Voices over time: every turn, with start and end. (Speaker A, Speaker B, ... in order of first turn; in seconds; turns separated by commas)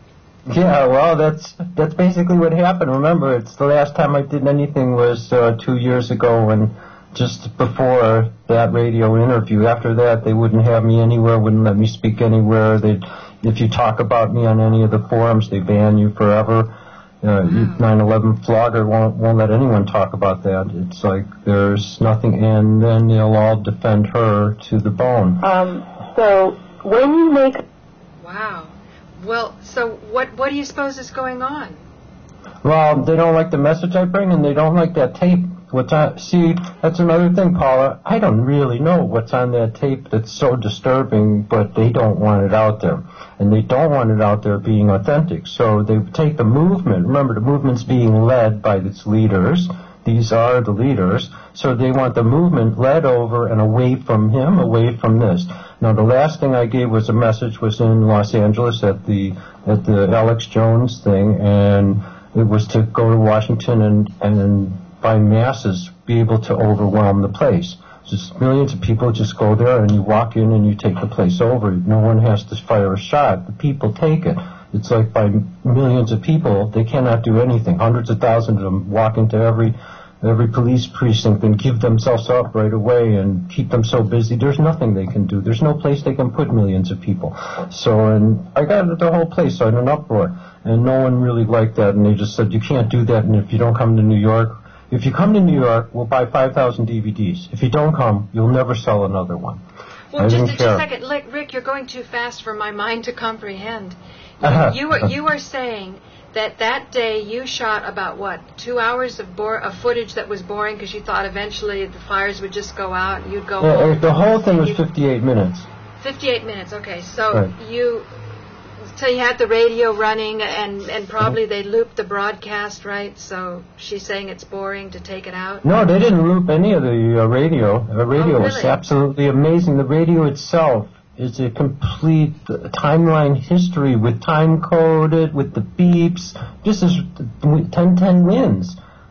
Speaker A: 0.5-25.4, Speaker B: 17.5-17.8, Speaker C: 25.4-27.6, Speaker B: 28.2-31.8, Speaker A: 32.6-99.6, Speaker B: 100.1-114.8, Speaker A: 100.2-100.8, Speaker A: 104.4-105.1, Speaker A: 113.6-115.7, Speaker B: 116.0-118.1, Speaker B: 118.9-125.7, Speaker A: 125.6-138.8, Speaker B: 128.2-128.8